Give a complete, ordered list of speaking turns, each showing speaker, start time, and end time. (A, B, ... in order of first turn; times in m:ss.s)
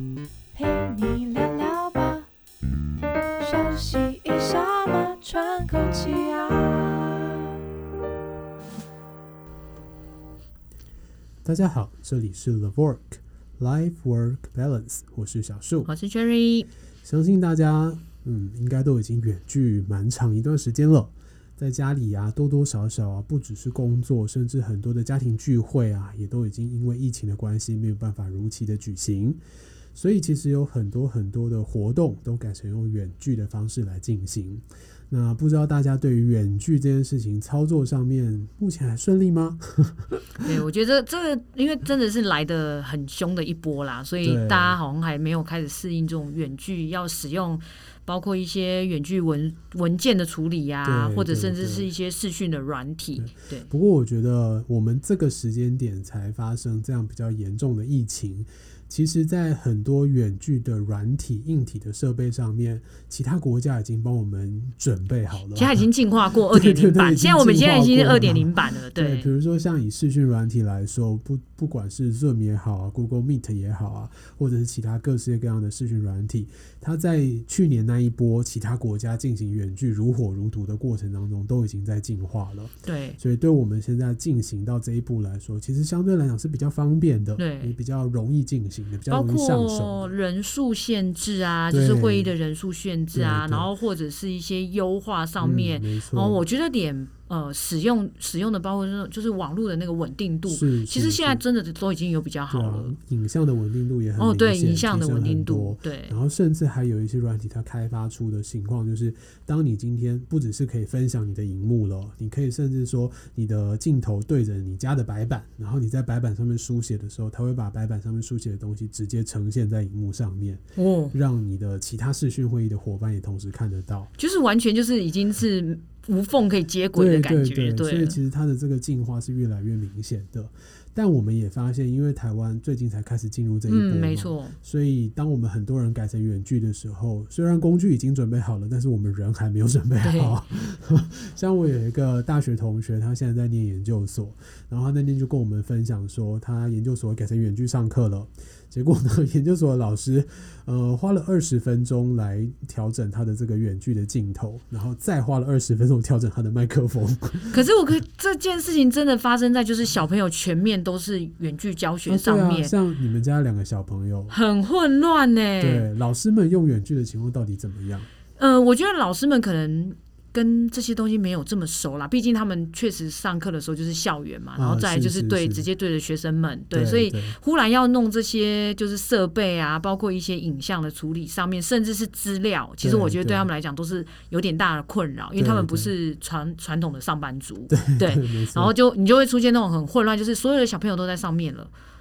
0:00.5-0:02.3 A
0:03.4-0:07.6 A
0:11.4-0:15.9 B
0:15.8-0:16.7 C
0:17.0-0:29.4 B
0:30.0-0:40.5 B
0:40.4-0:53.7 C
0:44.2-0:44.8 B
0:50.8-0:51.9 B
0:53.2-1:05.9 B
1:05.5-1:09.3 C
1:06.5-1:30.1 B
1:22.8-1:23.2 C
1:27.4-1:27.8 C
1:29.1-1:42.9 C
1:31.7-1:32.3 B
1:33.1-1:33.7 B
1:35.4-1:36.4 B
1:40.5-1:41.4 B
1:42.5-2:04.1 B
1:44.2-1:46.2 C
2:00.8-2:01.2 C
2:04.2-2:08.2 C
2:07.0-2:37.7 B
2:13.7-2:14.6 C
2:20.0-2:20.4 C
2:37.5-2:42.7 C
2:42.1-2:44.4 B
2:44.3-2:45.9 C
2:45.6-2:48.1 B
2:48.4-3:11.7 C
2:54.6-2:55.7 B
2:56.7-2:57.4 B
3:02.8-3:03.5 B
3:05.4-3:05.9 B
3:07.7-3:08.7 B